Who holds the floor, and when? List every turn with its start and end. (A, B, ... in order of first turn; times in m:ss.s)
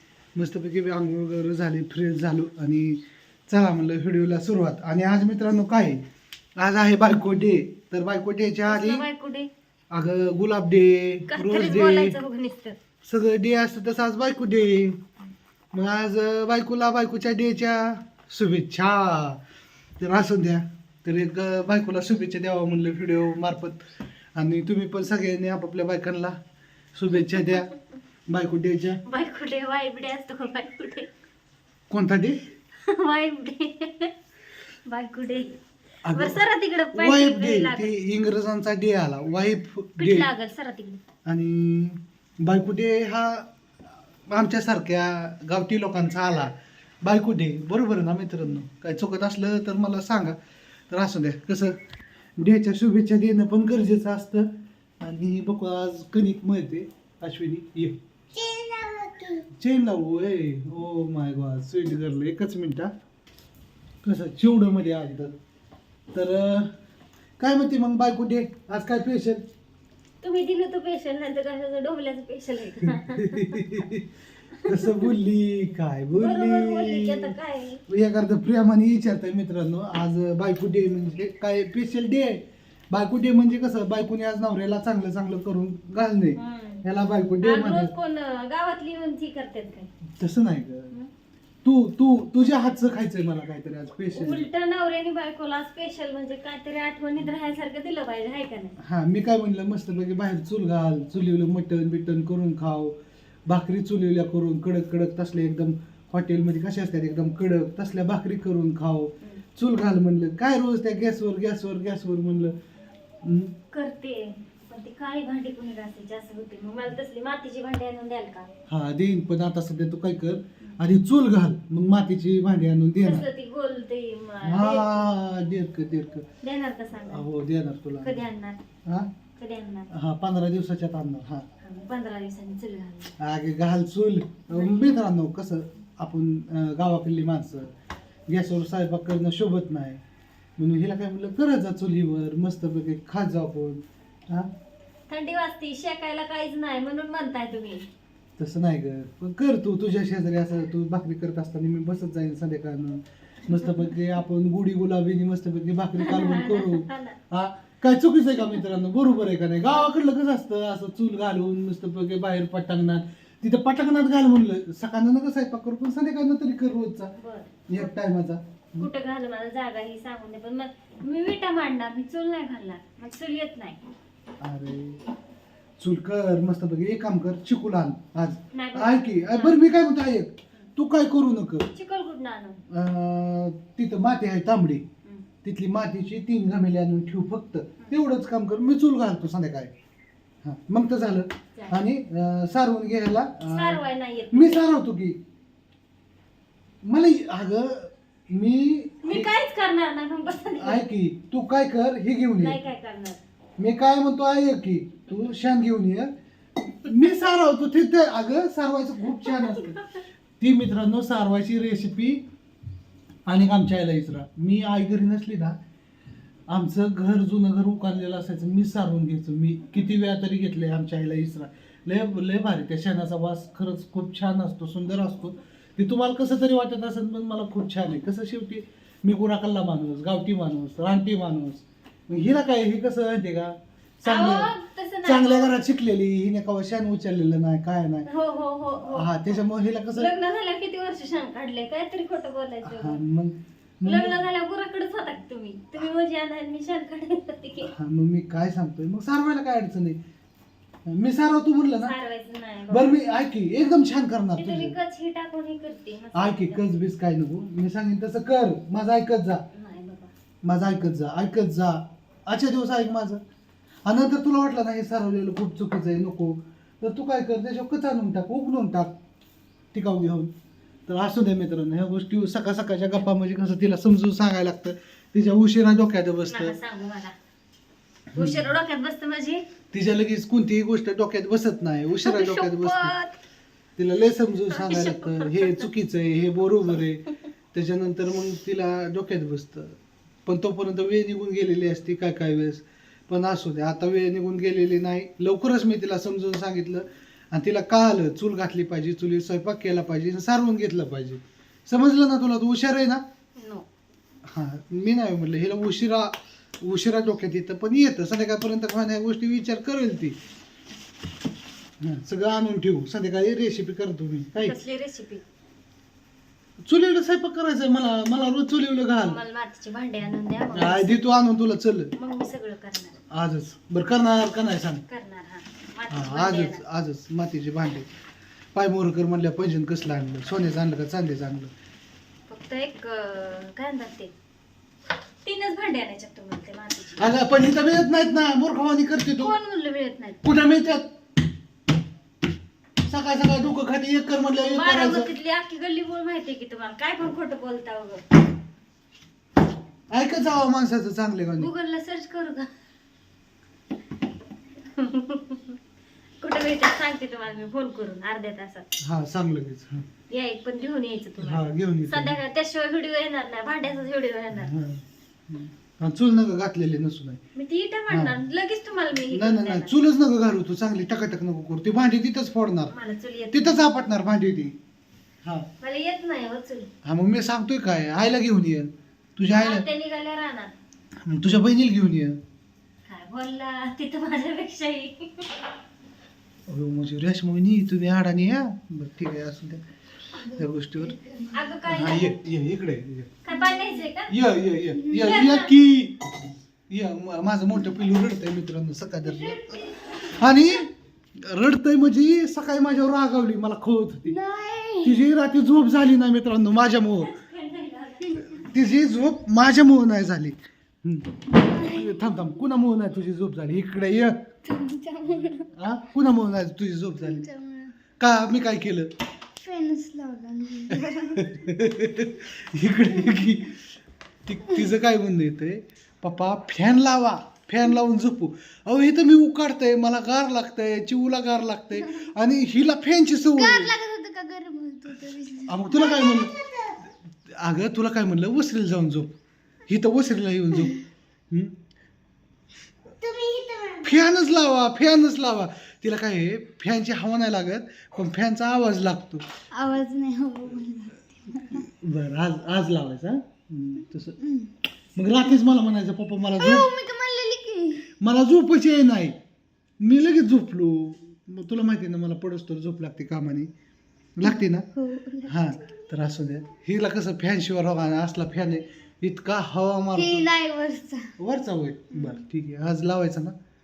0:00.3-0:06.0 A
0:06.6-0:09.0 A
0:08.7-0:09.5 B
0:09.9-0:12.2 A
0:11.3-0:12.8 B
0:13.0-0:15.0 A
0:15.7-0:19.4 A
0:20.0-0:23.8 A
0:24.4-0:26.4 A
0:26.9-0:27.7 A
0:28.3-0:29.0 A
0:29.0-0:31.1 B
0:31.9-0:32.4 A
0:32.8-0:34.1 B
0:34.9-0:35.6 B
0:36.0-0:36.4 A
0:36.1-0:37.9 B
0:36.9-0:40.3 A
0:40.0-0:41.0 B
0:41.2-0:43.5 A
0:44.3-0:46.5 A
0:47.0-0:50.4 A
0:50.9-0:51.8 A
0:52.4-0:54.5 A
0:55.0-0:58.0 A
0:58.3-0:59.4 C
0:59.5-1:02.9 A
1:04.0-1:05.3 A
1:06.1-1:06.7 A
1:07.4-1:09.4 A
1:10.2-1:13.7 B
1:12.8-1:14.1 A
1:14.6-1:15.1 B
1:14.6-1:17.3 A
1:16.2-1:17.8 B
1:17.9-1:27.9 A
1:26.4-1:26.8 B
1:27.4-1:29.9 B
1:30.2-1:30.9 A
1:31.6-1:34.5 A
1:34.1-1:38.7 B
1:38.8-1:43.0 A
1:43.5-1:52.6 A
1:53.2-1:53.5 A
1:53.7-1:58.5 B
1:58.7-2:03.2 A
2:03.0-2:05.1 B
2:04.4-2:06.2 A
2:06.4-2:07.2 B
2:07.1-2:08.2 A
2:08.0-2:08.6 B
2:08.8-2:09.1 A
2:09.4-2:09.9 B
2:09.9-2:11.5 A
2:11.6-2:13.1 B
2:13.2-2:17.7 A
2:14.5-2:15.0 B
2:18.3-2:20.0 A
2:20.6-2:24.5 A
2:25.1-2:27.8 B
2:28.4-2:47.1 A
2:36.0-2:37.2 B
2:47.2-2:47.9 B
2:47.7-2:48.9 A
2:48.8-2:53.8 B
2:54.4-2:55.0 A
2:55.8-3:01.7 A
2:58.5-2:59.6 B
3:01.7-3:02.6 B
3:02.7-3:04.8 A
3:05.4-3:09.7 A
3:10.4-3:13.8 A
3:11.5-3:11.8 B
3:13.4-3:14.6 B
3:14.3-3:15.2 A
3:16.8-3:19.3 A
3:19.0-3:20.8 B
3:20.6-3:22.6 A
3:22.4-3:23.2 B
3:23.6-3:29.8 A
3:29.2-3:29.8 B
3:30.4-3:32.2 A
3:33.3-3:35.6 A
3:36.5-3:54.5 A
3:54.0-3:55.6 B
3:55.0-3:58.1 A
3:58.1-3:59.4 B
3:58.9-4:00.1 A
3:59.9-4:03.0 B
4:02.6-4:04.2 A
4:03.8-4:07.7 B
4:07.7-4:10.0 A
4:10.9-4:11.9 A
4:11.7-4:13.0 B
4:12.7-4:14.7 A
4:14.4-4:16.6 B
4:16.1-4:19.4 A
4:19.5-4:20.1 B
4:20.4-4:23.2 A
4:23.8-4:28.9 A
4:29.7-4:30.3 A
4:30.9-4:36.5 A
4:36.3-4:37.2 B
4:38.1-4:39.4 B
4:38.1-4:38.4 A
4:39.7-4:42.9 A
4:42.0-4:43.1 B
4:43.8-5:03.0 A
4:44.5-4:45.7 B
5:03.4-5:03.6 B
5:04.2-5:10.2 A
5:11.8-5:14.6 A
5:14.4-5:15.2 B
5:16.6-5:19.2 A
5:19.0-5:21.0 B
5:20.5-5:21.9 A
5:21.9-5:23.0 B
5:23.1-5:24.8 A
5:24.9-5:26.6 B
5:25.9-5:27.9 A
5:28.5-5:31.5 A
5:32.3-5:34.1 B
5:35.2-5:37.2 B
5:37.0-5:39.3 A
5:39.2-5:40.2 B
5:40.2-5:40.9 A
5:42.8-5:45.1 A
5:44.4-5:48.0 B
5:49.9-5:51.5 A
5:51.4-5:52.5 B
5:54.8-5:55.6 B
5:56.2-5:58.6 B
5:58.8-5:59.8 A
6:00.1-6:04.5 B
6:01.2-6:02.2 A
6:04.3-6:07.2 A
6:07.3-6:09.7 B
6:07.9-6:08.2 A
6:09.1-6:12.7 A
6:12.7-6:13.6 B
6:13.3-6:14.6 A
6:15.6-6:16.7 B
6:16.8-6:19.6 A
6:19.3-6:20.5 B
6:21.0-6:22.2 A
6:22.8-6:25.3 B
6:26.5-6:29.6 A
6:30.2-6:31.0 A
6:30.8-6:31.4 C
6:31.3-6:32.2 B
6:31.6-6:33.1 A
6:33.2-6:34.1 B
6:33.3-6:33.8 C
6:34.1-6:36.1 A
6:34.9-6:35.5 B
6:36.7-6:39.4 A
6:40.0-6:44.2 A
6:44.1-6:45.1 C
6:44.8-6:47.1 A
6:47.0-6:48.4 B
6:48.2-6:54.2 A
6:51.3-6:52.0 C
6:54.4-6:55.5 C
6:55.5-6:57.2 A
6:57.0-6:57.7 C
6:58.0-6:58.9 A
6:59.4-7:01.3 C
7:00.7-7:03.6 A
7:04.2-7:13.7 A
7:13.3-7:16.8 C
7:15.5-7:16.4 A
7:17.2-7:19.1 A
7:19.7-7:21.6 A
7:23.0-7:23.9 C
7:23.8-7:29.2 A
7:29.5-7:31.6 C
7:31.5-7:34.2 A
7:34.2-7:34.5 C
7:34.9-7:36.7 A
7:36.4-7:37.9 C
7:38.0-7:39.2 A
7:39.8-7:43.5 A
7:44.2-7:44.7 A
7:44.2-7:45.6 C
7:45.2-7:50.3 A
7:49.9-7:51.1 C
7:51.2-7:53.4 A